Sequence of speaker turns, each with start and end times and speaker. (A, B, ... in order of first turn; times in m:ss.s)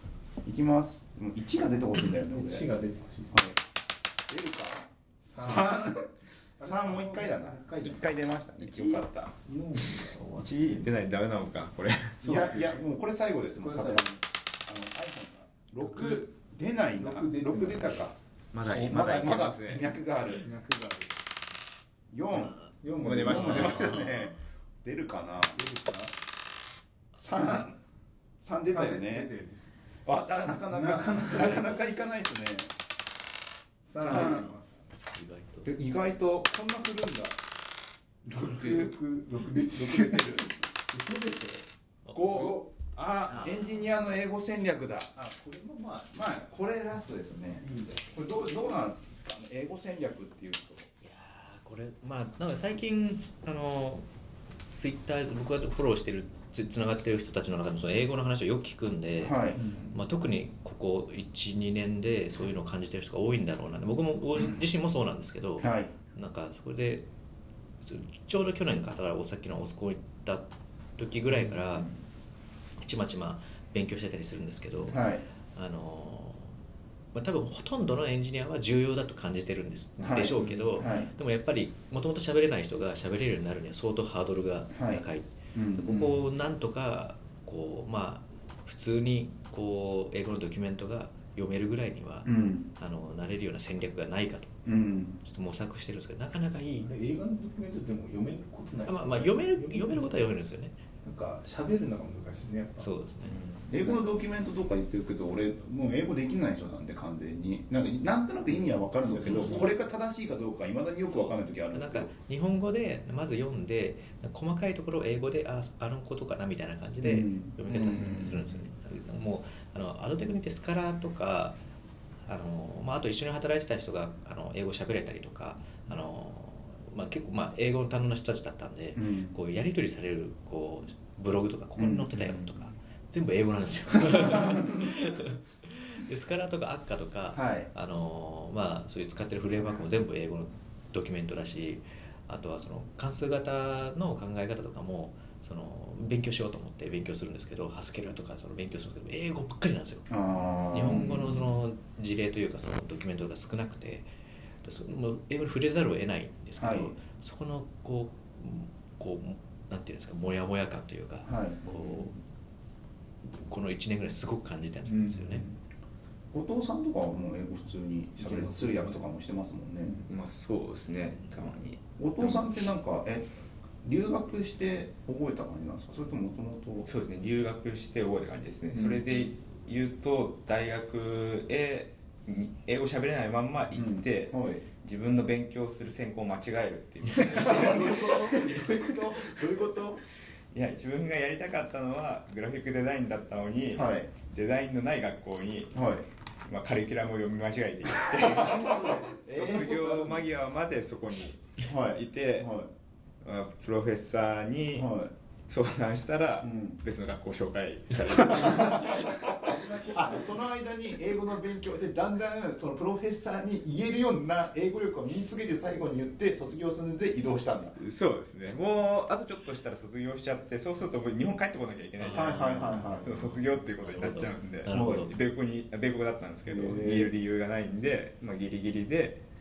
0:00.4-0:02.7 A
0:02.1-0:03.4 B
0:03.3-0:03.6 A
0:04.3-0:06.1 A
0:05.2-0:05.9 B
0:06.6-0:08.0 B
0:06.6-0:09.3 A
0:08.6-0:10.9 B
0:09.8-0:12.3 C
0:12.2-0:12.8 B
0:12.2-0:18.1 A
0:13.6-0:14.1 B
0:15.8-0:16.2 B
0:16.9-0:18.1 B
0:18.5-0:19.8 C
0:18.6-0:21.2 B
0:18.8-0:20.5 A
0:22.1-0:22.6 A
0:22.8-0:24.1 B
0:23.0-0:24.1 C
0:23.2-0:25.6 A
0:25.6-0:26.1 B
0:27.2-0:27.8 A
0:28.4-0:29.3 A
0:28.7-0:29.6 B
0:30.1-0:32.7 A
0:30.7-0:31.8 B
0:33.9-0:34.8 B
0:34.0-0:34.6 A
0:35.1-0:35.7 D
0:35.6-0:37.4 A
0:38.3-0:41.7 B
0:38.4-0:38.9 A
0:39.7-0:40.6 A
0:42.0-0:42.4 D
0:42.1-0:45.2 A
0:42.2-0:42.7 B
0:43.3-0:43.9 D
0:45.2-0:46.1 B
0:46.0-0:50.9 A
0:47.6-0:48.1 B
0:51.0-0:54.1 D
0:54.7-0:59.4 D
0:59.2-0:59.6 A
0:59.6-1:00.0 B
0:59.9-1:07.0 D
1:05.6-1:05.9 A
1:07.8-1:11.9 D
1:12.8-1:15.0 D
1:14.9-1:15.2 A
1:15.5-1:16.5 D
1:17.1-1:34.6 D
1:20.0-1:21.1 A
1:20.4-1:20.8 C
1:24.7-1:26.2 A
1:32.2-1:32.7 A
1:34.6-1:35.2 A
1:35.2-1:36.9 D
1:36.8-1:40.2 B
1:38.8-1:40.8 D
1:41.0-1:42.9 B
1:42.8-1:43.4 D
1:43.3-1:43.8 C
1:43.7-1:52.1 A
1:43.7-1:44.0 B
1:48.9-1:49.7 B
1:49.3-1:49.6 D
1:51.0-2:01.6 D
1:57.0-1:57.6 A
1:57.7-1:58.4 B
2:02.3-2:30.0 D
2:09.0-2:09.4 A
2:11.8-2:12.1 A
2:12.2-2:12.5 C
2:17.3-2:17.7 A
2:30.1-2:31.5 A
2:30.7-2:34.1 D
2:34.6-2:42.1 D
2:36.6-2:37.0 A
2:41.2-2:41.6 A
2:43.3-2:45.4 D
2:44.9-2:45.5 B
2:46.3-2:50.0 A
2:48.7-2:49.0 D
2:50.0-2:52.6 C
2:52.0-2:53.3 A
2:53.8-2:56.9 A
2:56.8-3:08.7 C
2:58.7-2:59.0 A
3:03.7-3:04.6 A
3:07.3-3:10.0 A
3:10.5-3:15.8 C
3:13.7-3:14.1 A
3:15.7-3:16.1 A
3:16.4-3:22.5 C
3:18.2-3:20.0 B
3:18.4-3:20.2 A
3:21.6-3:22.7 A
3:23.2-3:24.9 C
3:24.7-3:25.1 A
3:25.5-3:29.6 C
3:26.4-3:26.8 A
3:28.2-3:30.1 B
3:28.4-3:37.8 A
3:37.8-3:49.2 C
3:42.0-3:45.1 D
3:42.1-3:43.2 A
3:44.7-3:45.1 A
3:46.5-3:47.1 A